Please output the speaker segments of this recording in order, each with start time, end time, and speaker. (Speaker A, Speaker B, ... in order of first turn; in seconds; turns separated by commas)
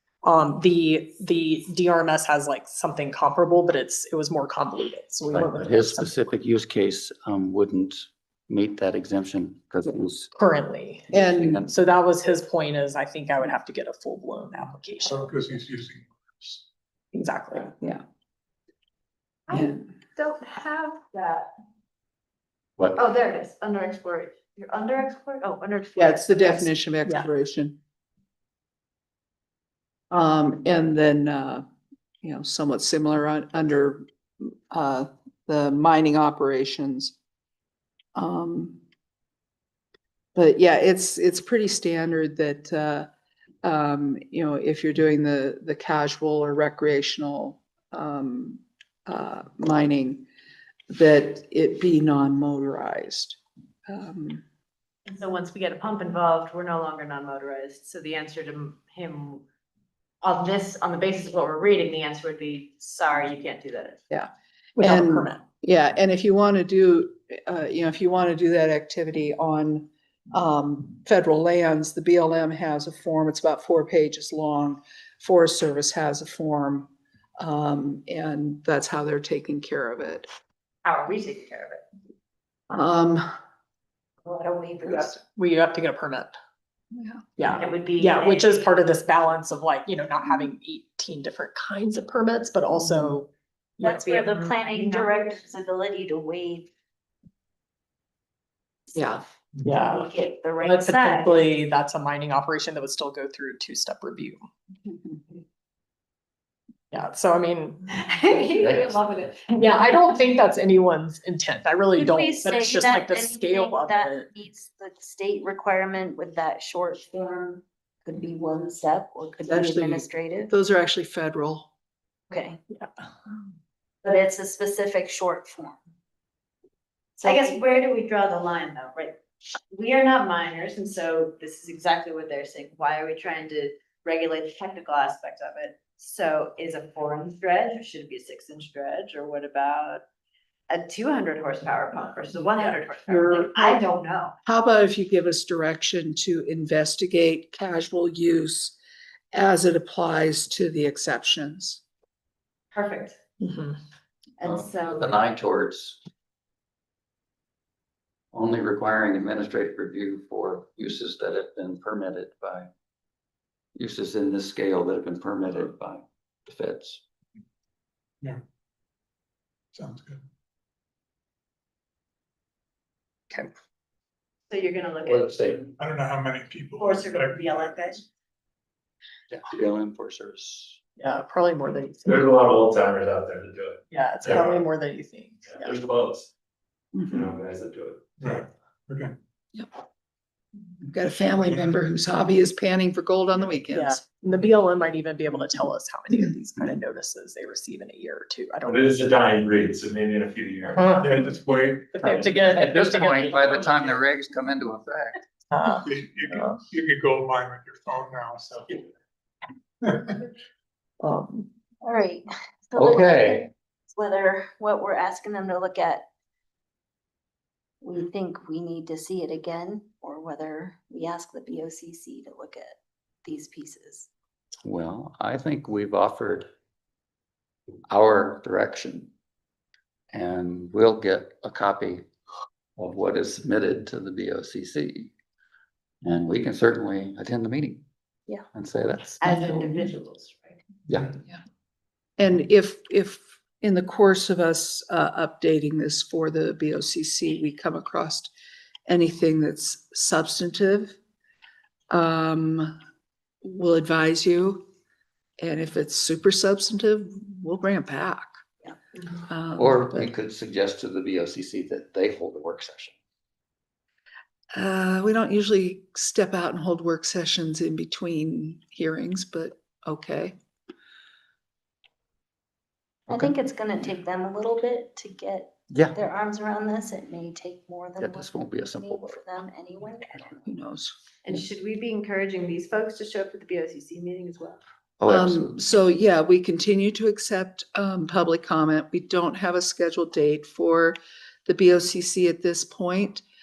Speaker A: 0.2-6.1, Speaker B: 5.3-10.3, Speaker A: 10.3-11.1, Speaker B: 11.1-11.7, Speaker C: 11.1-11.6, Speaker A: 11.7-15.1, Speaker D: 15.0-16.6, Speaker A: 17.1-17.7, Speaker E: 19.5-21.5, Speaker C: 19.5-19.8, Speaker E: 22.9-26.7, Speaker C: 25.9-27.8, Speaker C: 30.1-31.6, Speaker C: 32.2-37.1, Speaker C: 38.1-38.8, Speaker C: 40.3-43.1, Speaker C: 43.6-50.2, Speaker C: 50.9-54.4, Speaker E: 55.0-59.4, Speaker E: 60.2-64.0, Speaker C: 64.1-80.3, Speaker A: 64.8-65.4, Speaker E: 80.8-81.8, Speaker C: 82.7-83.3, Speaker F: 84.2-85.2, Speaker A: 84.9-86.3, Speaker C: 86.9-87.3, Speaker A: 87.4-94.3, Speaker E: 87.6-88.7, Speaker C: 92.8-93.1, Speaker F: 93.8-96.7, Speaker E: 94.1-95.4, Speaker C: 98.9-99.2, Speaker A: 99.6-100.1, Speaker F: 99.8-101.2, Speaker A: 100.6-104.4, Speaker E: 101.2-101.4, Speaker A: 106.9-107.9, Speaker E: 108.0-109.6, Speaker B: 108.7-109.0, Speaker A: 109.5-114.3, Speaker F: 112.0-120.5, Speaker C: 119.5-121.7, Speaker F: 122.3-122.6, Speaker F: 124.0-125.8, Speaker F: 127.2-127.6, Speaker E: 127.2-129.2, Speaker E: 129.7-140.0, Speaker E: 140.7-144.3, Speaker C: 142.6-143.8, Speaker C: 144.4-148.8, Speaker C: 149.3-151.8, Speaker E: 152.7-153.2, Speaker A: 153.4-153.8, Speaker E: 154.4-155.2, Speaker B: 154.4-156.0, Speaker B: 158.3-162.7, Speaker B: 163.8-167.0, Speaker D: 169.7-170.2, Speaker E: 174.5-175.6, Speaker B: 175.0-175.7, Speaker D: 175.8-178.0, Speaker E: 176.8-178.0, Speaker B: 179.3-180.8, Speaker A: 181.0-182.2, Speaker G: 182.0-183.8, Speaker A: 183.9-185.8, Speaker G: 185.5-186.3, Speaker C: 186.9-187.2, Speaker G: 187.1-188.2, Speaker D: 188.2-189.1, Speaker C: 190.9-194.0, Speaker A: 193.7-199.2, Speaker G: 198.7-200.9, Speaker A: 200.8-201.2, Speaker D: 201.0-201.9, Speaker A: 201.9-203.6, Speaker B: 202.5-205.2, Speaker A: 205.5-206.6, Speaker D: 205.8-208.8, Speaker D: 209.8-210.2, Speaker A: 211.0-211.5, Speaker F: 211.8-216.1, Speaker B: 212.8-213.5, Speaker F: 217.8-224.1, Speaker B: 224.6-226.5, Speaker B: 227.9-229.1, Speaker B: 230.1-232.1, Speaker B: 232.8-235.1, Speaker B: 236.0-237.8, Speaker B: 238.5-239.5, Speaker E: 239.2-240.6, Speaker B: 240.9-241.1, Speaker C: 242.2-248.3, Speaker C: 248.9-250.9, Speaker C: 251.9-252.7, Speaker C: 253.4-254.6, Speaker C: 255.4-258.4, Speaker C: 259.3-260.1, Speaker B: 259.6-262.9, Speaker C: 264.5-270.4, Speaker F: 273.1-280.4, Speaker B: 275.7-276.0, Speaker B: 278.0-279.2, Speaker C: 280.4-280.9, Speaker E: 281.2-284.6, Speaker B: 285.0-285.6, Speaker C: 285.1-293.2